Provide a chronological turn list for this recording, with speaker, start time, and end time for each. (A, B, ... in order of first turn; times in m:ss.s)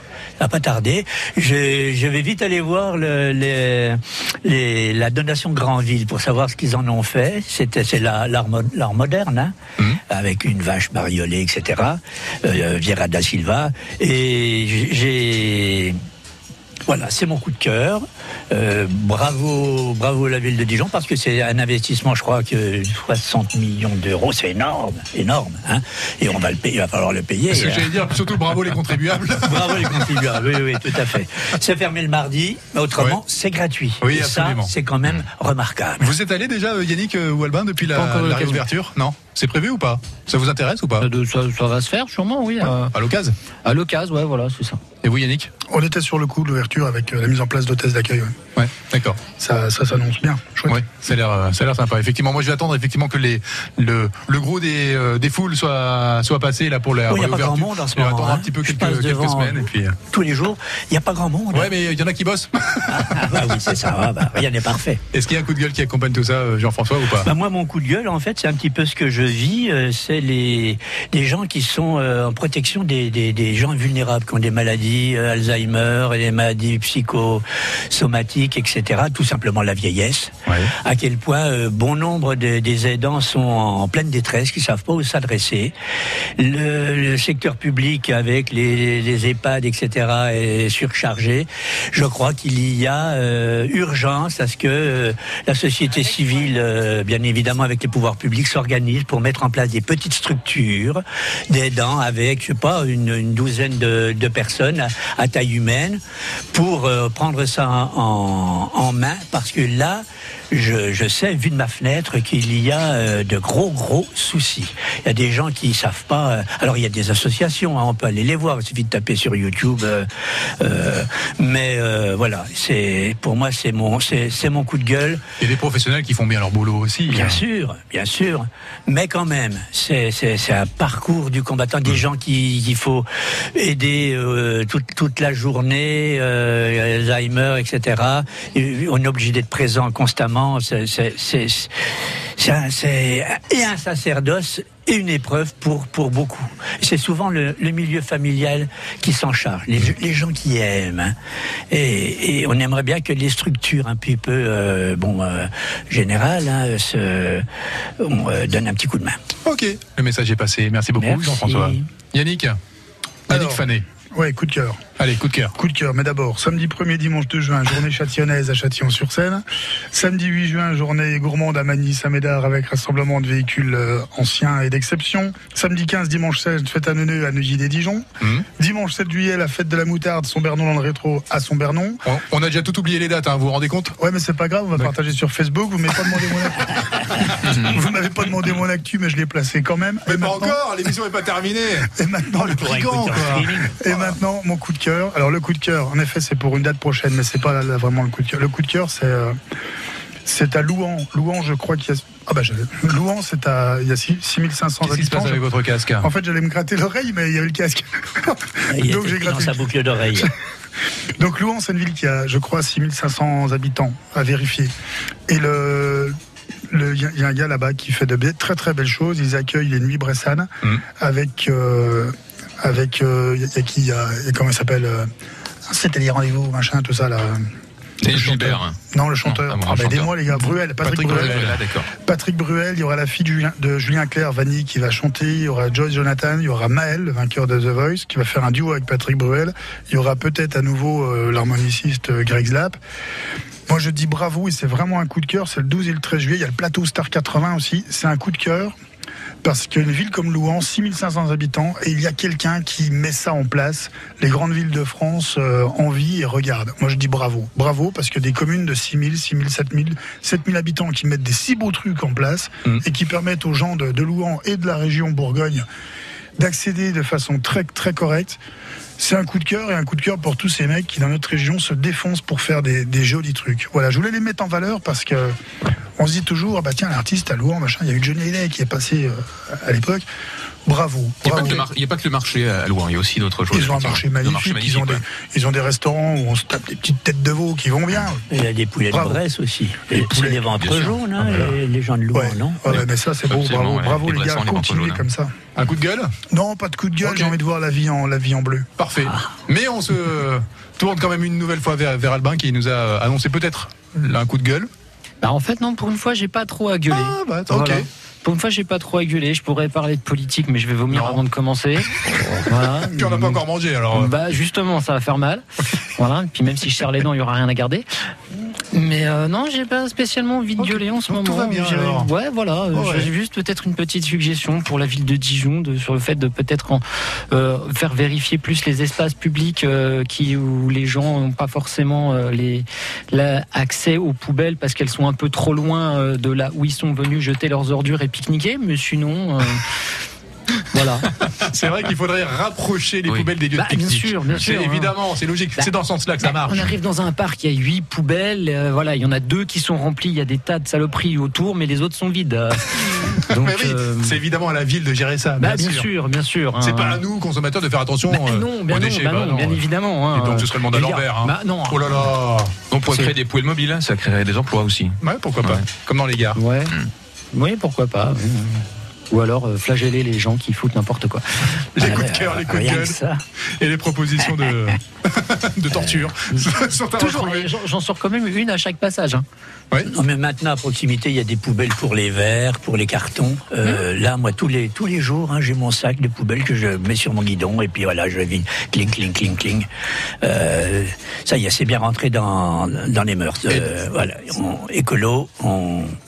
0:00.4-0:09.5 A
0:10.1-0:16.0 A
0:16.9-0:28.0 A
0:27.5-0:30.2 B
0:29.4-0:36.1 A
0:34.0-0:34.7 B
0:36.0-0:41.1 B
0:37.9-0:38.6 C
0:41.0-0:42.9 C
0:42.9-0:43.3 B
0:43.6-0:44.8 C
0:45.0-0:45.5 B
0:45.7-0:48.3 D
0:48.6-0:49.3 B
0:49.3-0:50.8 D
0:50.7-1:00.0 B
0:57.1-0:59.6 A
1:00.1-1:01.7 A
1:01.5-1:03.5 B
1:03.0-1:05.0 A
1:05.1-1:07.3 B
1:07.2-1:25.7 A
1:20.5-1:20.7 B
1:26.4-1:46.0 A
1:46.5-2:00.1 A
2:00.6-2:05.2 A
2:05.4-2:07.4 B
2:07.1-2:21.7 A
2:22.4-2:31.1 A
2:31.7-2:37.4 A
2:38.0-2:39.2 A
2:39.4-2:42.6 B
2:41.0-2:41.9 A
2:43.3-2:43.8 B
2:43.3-2:44.8 D
2:45.0-2:45.5 B
2:45.6-2:58.0 D
2:58.6-3:02.0 D
3:02.0-3:03.9 B
3:04.0-3:10.6 D
3:10.1-3:13.5 B
3:11.9-3:19.3 D
3:12.4-3:14.2 A
3:20.2-3:25.4 D
3:24.8-3:26.1 B
3:26.0-3:30.3 D
3:28.7-3:30.3 A
3:31.2-3:34.7 D
3:35.3-3:36.1 D
3:36.7-3:45.1 D
3:45.7-3:47.4 D
3:48.0-3:50.2 E
3:48.1-4:02.8 D
3:50.8-3:51.9 E
3:50.8-3:51.5 B
4:03.7-4:08.7 D
4:09.4-4:25.6 D
4:26.4-4:28.4 D
4:29.0-4:35.3 D
4:36.0-4:40.0 D
4:40.7-4:41.7 D
4:41.2-4:45.0 E
4:41.3-4:41.6 B
4:43.5-4:48.3 D
4:48.3-4:52.7 A
4:48.9-4:49.2 D
4:49.9-4:50.5 D
4:50.6-4:51.4 E
4:52.1-4:55.3 D
4:52.6-4:55.0 E
4:55.6-4:56.1 B
4:56.3-4:58.7 D
4:57.0-4:57.3 B
4:58.8-5:04.7 B
5:05.2-5:11.9 C
5:06.9-5:07.8 B
5:10.9-5:11.2 B
5:12.2-5:14.1 B
5:12.4-5:13.4 C
5:13.9-5:17.8 C
5:18.7-5:39.6 C
5:20.6-5:22.1 B
5:22.7-5:23.1 B
5:40.7-5:41.1 C
5:41.4-5:46.6 B
5:43.5-5:44.9 C
5:46.2-5:54.2 C
5:53.3-5:55.9 B
5:55.4-5:57.0 C
5:56.6-5:59.6 B
5:58.1-6:02.0 C
6:00.1-6:02.6 B
6:02.7-6:05.7 E
6:05.0-6:06.4 B
6:06.3-6:06.7 C
6:07.3-6:11.2 C
6:11.8-6:13.0 B
6:11.8-6:13.2 A
6:13.6-6:17.5 B
6:15.8-6:16.0 A
6:16.3-6:19.2 C
6:19.8-6:29.7 A
6:30.2-6:35.9 A